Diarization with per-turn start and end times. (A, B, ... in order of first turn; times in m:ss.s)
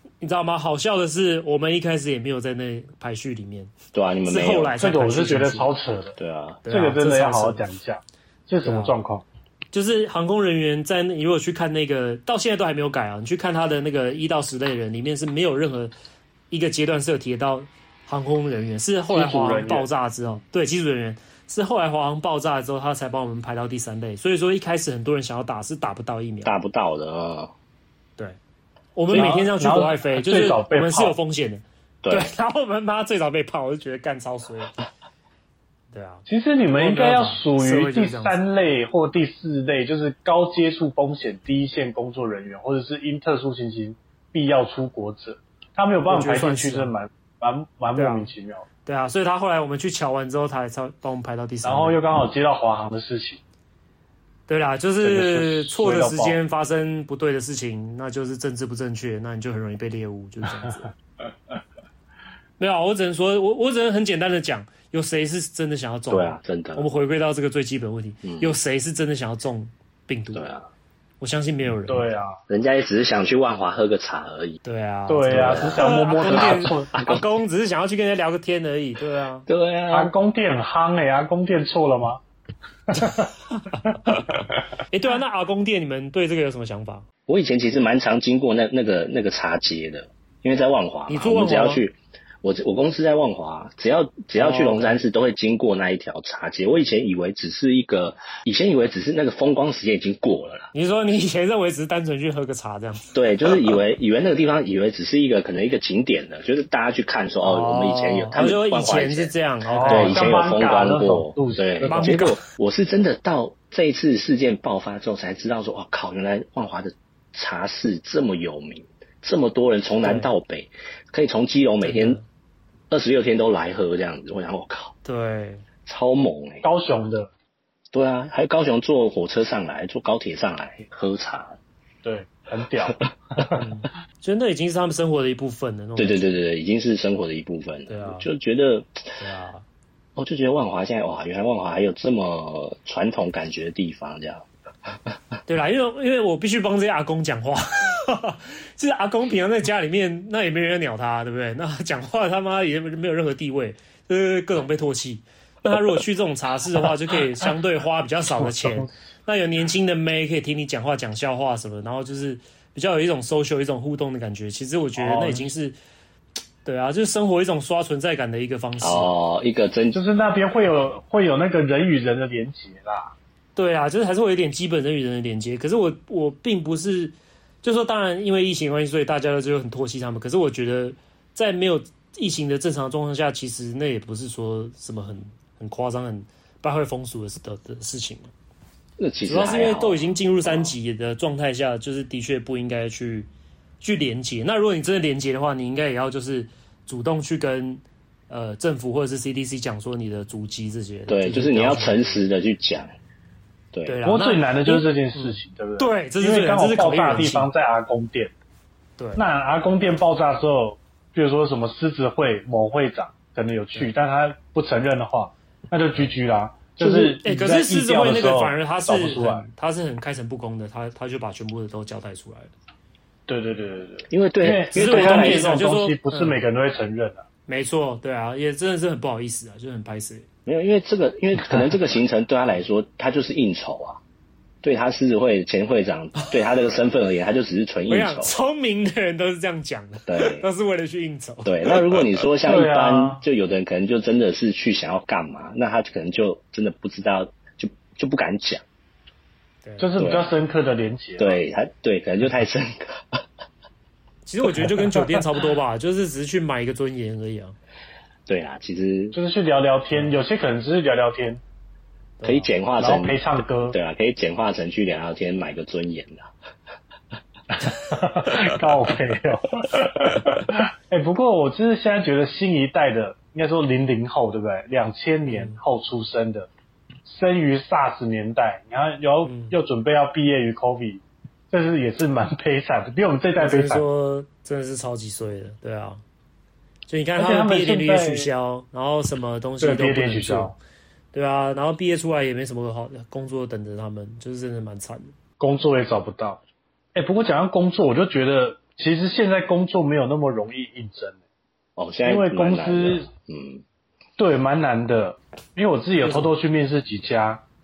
0:00.2-0:03.7 A
0:03.9-0:04.7 B
0:04.2-0:05.7 A
0:04.8-0:09.2 C
0:06.2-0:06.6 B
0:06.6-0:07.6 A
0:08.6-0:08.9 A
0:09.7-0:15.9 A
0:16.5-0:26.5 A
0:19.1-0:19.8 C
0:26.4-0:27.5 B
0:28.9-0:34.7 A
0:29.1-0:31.1 C
0:32.0-0:32.3 B
0:35.9-0:38.4 A
0:36.3-0:48.6 C
0:46.1-0:46.9 A
0:47.9-0:48.3 A
0:48.8-0:52.0 A
0:51.6-0:53.4 C
0:54.5-1:00.9 A
0:55.0-0:56.4 C
1:02.6-1:10.5 A
1:06.1-1:06.9 B
1:08.2-1:08.5 B
1:10.3-1:10.7 B
1:11.2-1:12.2 A
1:11.9-1:12.4 C
1:12.5-1:14.6 B
1:14.6-1:19.5 A
1:15.1-1:16.9 C
1:15.3-1:17.2 B
1:19.5-1:20.1 B
1:19.9-1:22.2 C
1:22.9-1:23.3 C
1:24.9-1:27.0 A
1:27.3-1:40.7 B
1:31.1-1:31.8 A
1:34.3-1:35.0 A
1:40.7-1:43.1 A
1:43.1-1:49.3 B
1:47.4-1:50.4 A
1:49.7-1:52.2 C
1:49.8-2:02.2 B
1:51.8-1:52.4 A
2:00.0-2:00.3 A
2:01.8-2:02.2 A
2:02.9-2:04.9 B
2:05.0-2:05.6 A
2:05.8-2:06.6 B
2:06.6-2:07.3 C
2:07.9-2:11.6 B
2:12.0-2:13.6 C
2:13.6-2:16.2 A
2:16.0-2:19.1 B
2:17.9-2:18.2 A
2:19.2-2:19.6 A
2:20.2-2:25.2 B
2:25.5-2:45.8 A
2:35.6-2:36.0 B
2:38.4-2:38.9 C
2:45.0-2:45.4 C
2:46.6-2:49.1 A
2:48.8-2:50.0 B
2:49.9-2:53.1 C
2:53.6-3:08.3 A
3:09.0-3:10.7 B
3:09.2-3:13.3 A
3:13.8-3:22.2 A
3:21.1-3:22.9 B
3:23.8-3:27.5 A
3:24.0-3:28.3 C
3:29.0-3:29.2 A
3:29.2-3:39.5 C
3:36.8-3:42.5 A
3:43.3-3:47.2 C
3:44.1-3:45.6 B
3:44.7-3:46.4 A
3:47.5-3:50.3 A
3:50.4-3:54.0 B
3:54.6-3:58.3 B
3:57.9-4:01.8 A
4:00.1-4:00.4 B
4:01.4-4:08.6 B
4:02.4-4:03.2 C
4:09.8-4:11.4 C
4:10.0-4:10.2 B
4:11.2-4:13.2 B
4:14.2-4:17.5 A
4:18.3-4:19.2 B
4:19.1-4:21.4 C
4:19.9-4:20.2 A
4:22.2-4:22.5 A
4:22.2-4:26.3 B
4:22.8-4:23.8 C
4:27.5-4:36.5 C
4:35.3-4:35.6 A
4:37.0-4:43.8 C
4:39.2-4:39.5 A
4:43.4-4:46.0 A
4:46.9-4:50.5 A
4:47.2-4:48.3 C
4:49.6-4:50.6 C
4:51.1-4:55.1 A
4:55.4-4:56.4 C
4:56.9-5:01.2 C
5:01.8-5:03.6 B
5:02.0-5:03.0 C
5:04.2-5:07.4 C
5:06.0-5:06.3 A